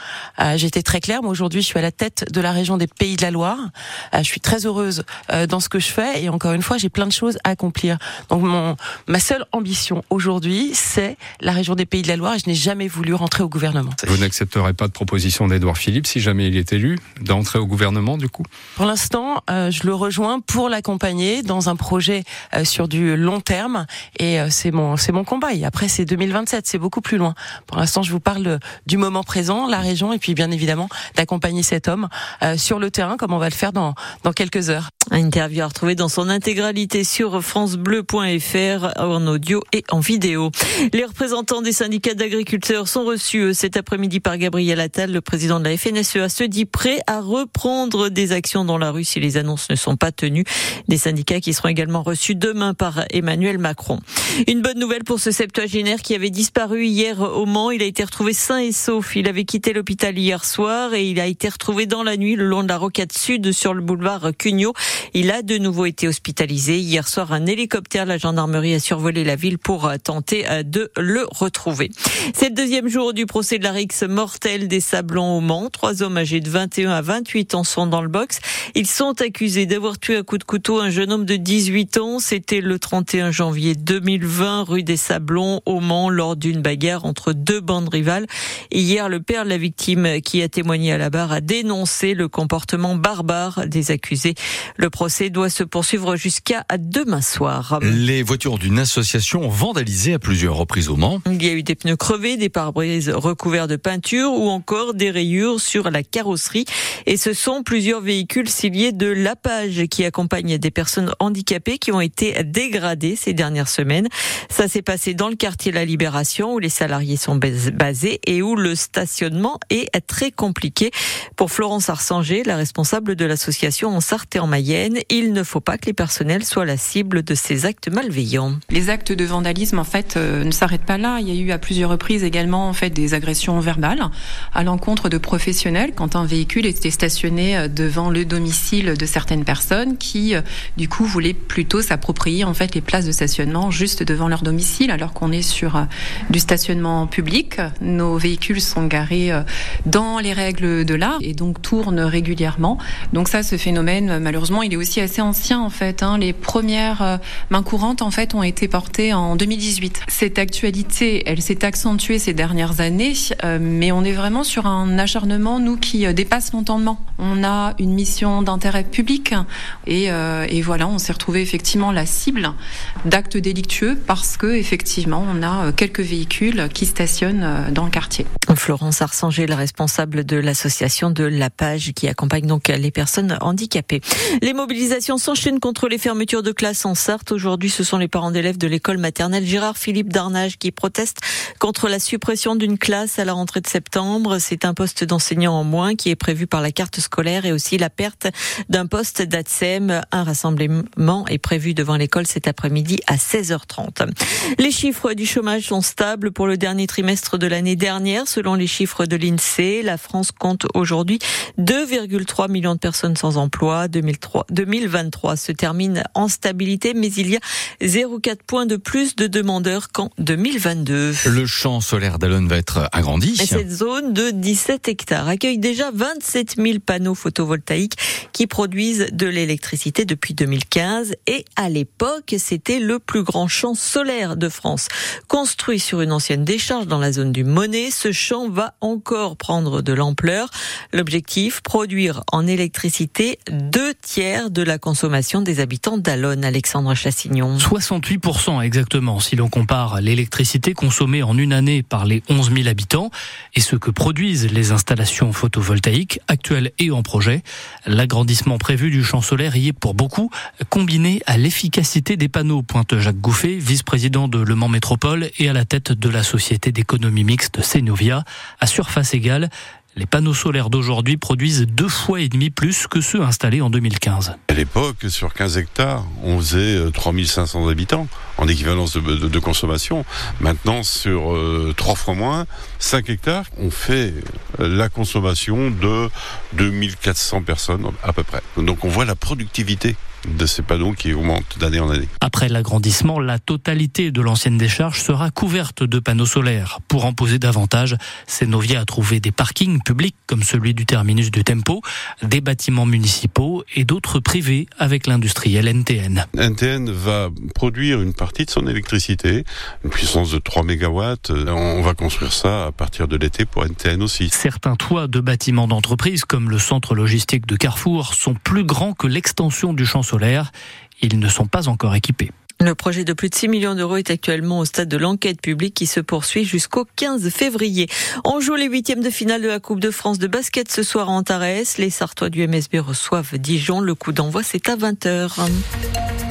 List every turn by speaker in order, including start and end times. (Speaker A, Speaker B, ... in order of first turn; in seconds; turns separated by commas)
Speaker A: 0.4-14.0, Speaker B: 14.0-18.5, Speaker A: 18.8-34.9, Speaker C: 35.1-98.0, Speaker D: 97.8-101.2, Speaker C: 101.3-128.6, Speaker E: 128.7-178.3, Speaker C: 178.5-204.1, Speaker C: 204.6-221.3, Speaker D: 221.2-223.7, Speaker C: 223.4-247.7, Speaker F: 247.6-274.4, Speaker G: 274.5-292.1, Speaker F: 292.2-306.3, Speaker G: 306.4-314.3, Speaker F: 314.3-322.3, Speaker C: 322.6-335.6